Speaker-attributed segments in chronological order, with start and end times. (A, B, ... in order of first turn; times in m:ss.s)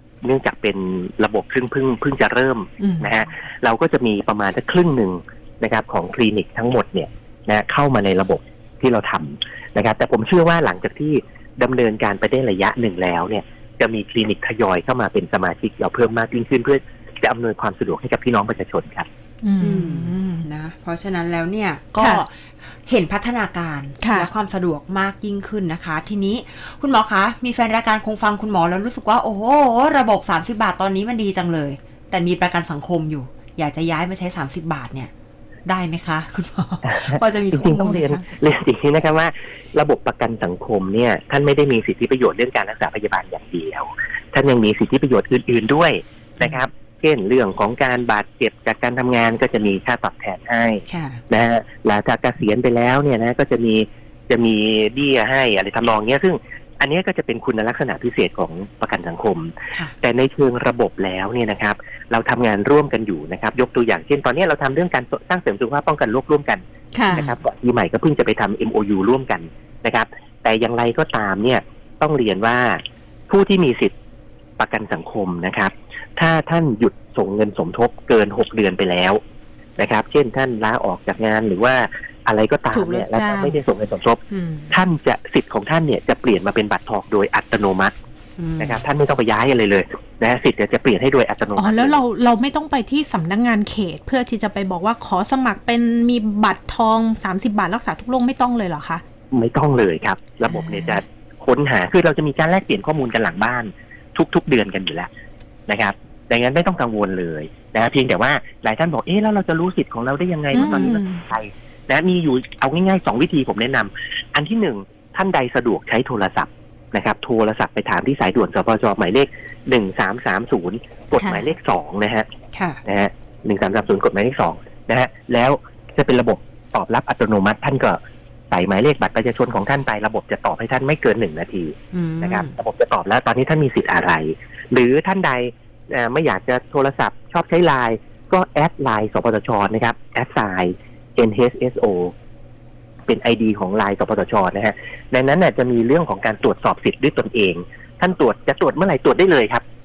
0:00.2-0:19.1 A
0:02.8-0:03.2 B
0:19.4-0:20.4 B
0:19.6-0:35.1 C
0:22.0-0:22.2 B
0:24.0-0:24.3 B
0:35.7-0:38.3 C
0:36.9-1:14.0 A
0:50.9-0:51.2 C
1:07.0-1:07.2 B
1:07.1-1:07.4 C
1:14.6-1:19.2 A
1:19.8-1:24.2 A
1:22.7-1:23.6 B
1:24.3-1:24.8 B
1:24.7-1:27.9 A
1:28.4-1:28.8 C
1:28.6-1:32.0 A
1:31.6-1:39.0 B
1:39.3-1:45.1 A
1:40.5-1:41.0 B
1:45.7-2:02.3 A
1:50.5-1:51.2 B
1:50.6-1:50.9 C
2:01.2-2:01.5 B
2:02.5-2:02.8 C
2:02.8-2:08.0 A
2:08.5-2:22.1 A
2:11.9-2:12.6 C
2:23.1-2:29.6 A